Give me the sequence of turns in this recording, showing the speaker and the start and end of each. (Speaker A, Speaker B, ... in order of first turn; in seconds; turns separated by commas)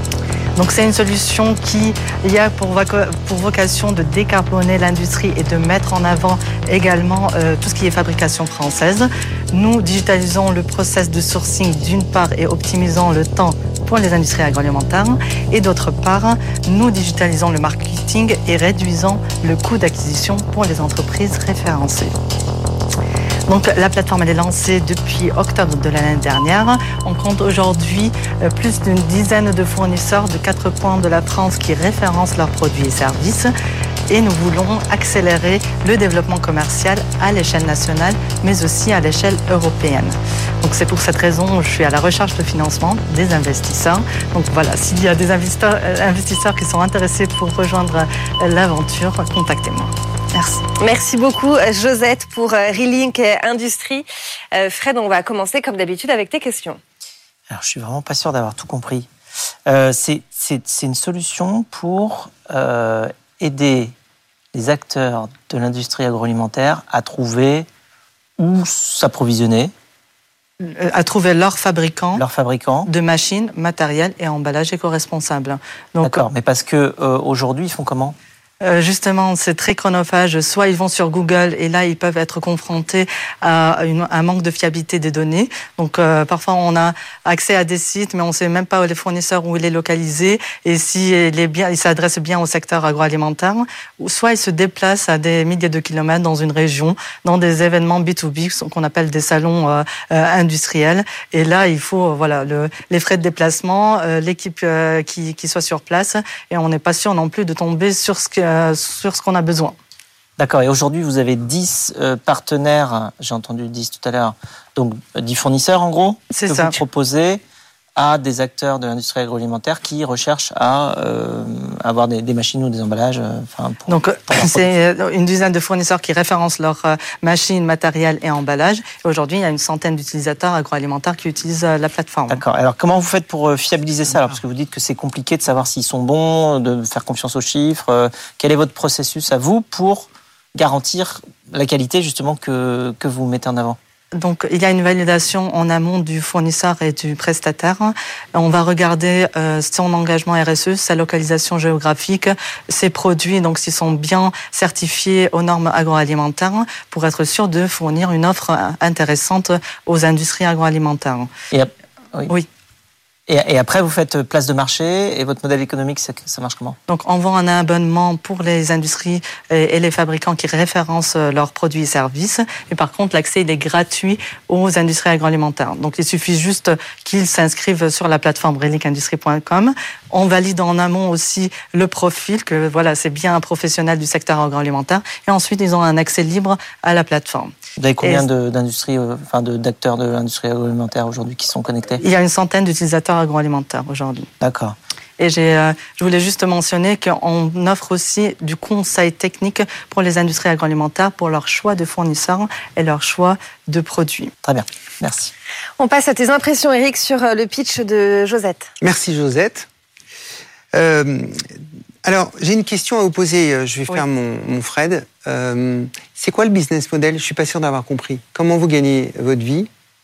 Speaker A: 0.5-22.1, Speaker A: 23.5-33.5, Speaker A: 34.1-50.6, Speaker B: 50.8-56.8, Speaker C: 57.5-59.1, Speaker C: 59.6-63.9, Speaker C: 64.5-67.7, Speaker C: 68.4-69.7, Speaker A: 70.6-72.2, Speaker C: 72.1-72.9, Speaker A: 72.8-76.2, Speaker C: 76.0-78.2, Speaker A: 78.6-109.7, Speaker C: 110.4-117.4, Speaker A: 116.3-116.8, Speaker C: 118.0-124.7, Speaker A: 123.9-132.4, Speaker C: 132.3-143.8, Speaker A: 144.1-161.3, Speaker C: 161.5-162.3, Speaker C: 163.3-166.8, Speaker A: 166.9-188.3, Speaker C: 187.8-192.0, Speaker A: 192.0-194.3, Speaker C: 194.4-194.8, Speaker A: 195.2-204.3, Speaker C: 204.4-205.3, Speaker B: 205.8-208.7, Speaker D: 208.8-209.7, Speaker D: 210.7-211.5, Speaker D: 212.0-219.7